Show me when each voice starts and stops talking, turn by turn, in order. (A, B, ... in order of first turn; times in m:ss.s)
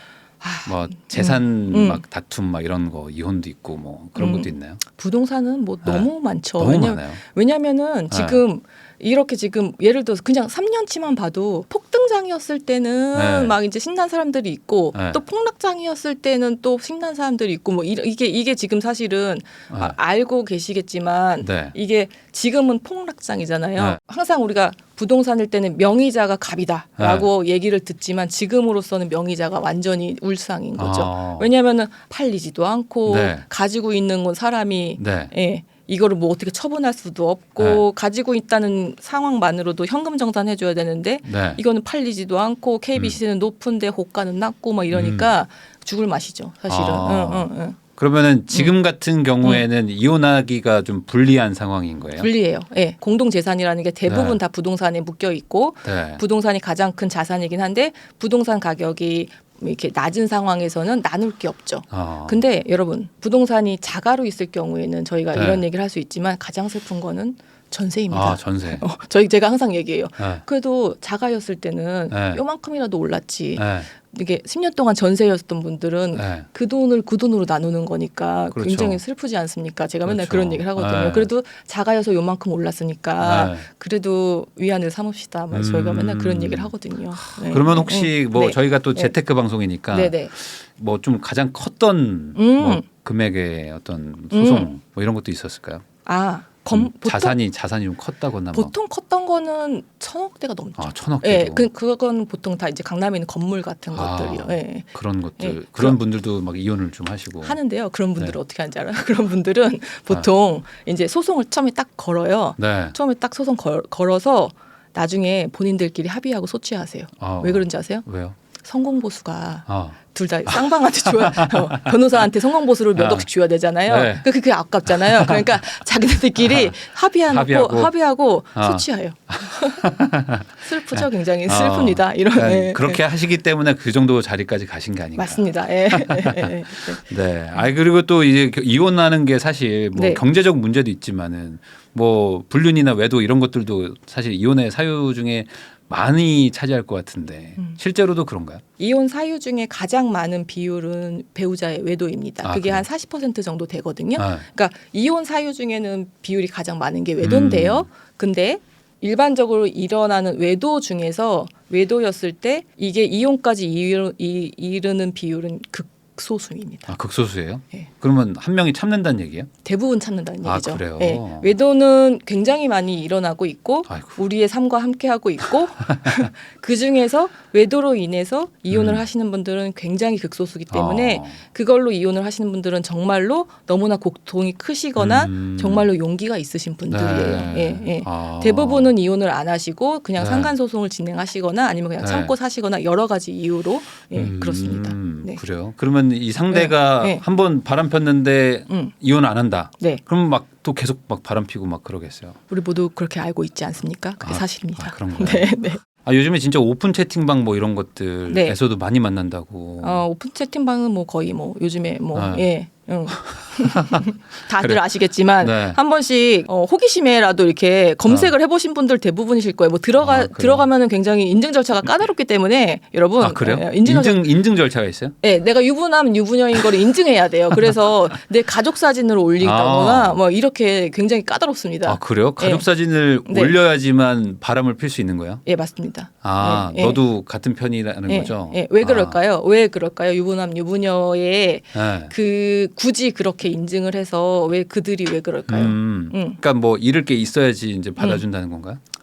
0:00.4-0:02.0 A
0:00.6-0:04.8 B
0:04.2-0:47.8 A
0:05.8-0:07.2 B
0:08.1-0:08.4 B
0:13.1-0:13.6 B
0:14.9-0:15.2 B
0:19.7-0:20.0 B
0:21.4-0:21.7 B
0:27.0-0:27.3 B
0:30.8-0:31.5 B
0:33.0-0:33.4 B
0:35.0-0:35.3 B
0:37.6-0:37.8 B
0:41.2-0:41.6 B
0:44.9-0:45.3 B
0:46.7-0:52.3 B
0:52.2-1:29.1 A
0:54.0-0:54.4 B
0:55.8-0:56.2 B
1:01.9-1:02.4 B
1:05.3-1:05.6 B
1:08.1-1:08.8 B
1:10.2-1:10.4 B
1:12.1-1:12.4 B
1:13.6-1:13.9 B
1:16.1-1:16.5 B
1:18.5-1:19.0 B
1:20.0-1:21.3 B
1:23.2-1:23.7 B
1:25.5-1:35.8 B
1:29.9-1:30.3 A
1:32.4-1:32.8 A
1:34.3-1:34.7 A
1:36.0-1:37.4 A
1:36.7-1:38.7 B
1:38.5-1:46.0 A
1:40.8-1:41.6 B
1:43.9-1:47.6 B
1:47.4-1:58.0 A
1:52.6-1:52.9 B
1:57.2-1:58.4 B
1:58.6-2:09.8 A
1:59.7-2:02.0 B
2:03.0-2:03.3 B
2:03.9-2:04.3 B
2:04.8-2:05.5 B
2:06.4-2:07.9 B
2:08.5-2:28.6 B
2:10.6-2:13.0 A
2:15.2-2:17.0 A
2:19.9-2:20.2 A
2:28.8-2:46.9 A
2:32.4-2:32.8 B
2:34.2-2:34.4 B
2:37.2-2:37.8 B
2:46.9-2:49.5 B
2:49.6-3:15.4 A
2:50.4-2:51.5 B
2:53.9-2:54.2 B
2:55.9-2:56.2 B
2:58.7-2:59.0 B
3:00.7-3:01.4 B
3:05.0-3:05.9 B
3:06.9-3:08.9 B
3:10.2-3:10.5 B
3:12.0-3:12.3 B
3:14.1-3:22.4 B
3:16.5-3:17.2 A
3:22.5-3:25.8 A
3:24.2-3:30.0 B
3:28.3-3:28.6 A
3:29.8-3:44.2 A
3:32.1-3:32.4 B
3:33.1-3:35.8 B
3:38.1-3:38.3 B
3:40.0-3:40.7 B
3:43.2-3:45.1 B
3:45.2-3:52.6 A
3:49.4-3:50.2 B
3:51.8-3:55.4 B
3:53.2-3:53.5 A
3:55.4-3:57.0 A
3:56.2-3:59.2 B
3:58.1-4:06.4 A
4:01.7-4:02.1 B
4:05.5-4:08.8 B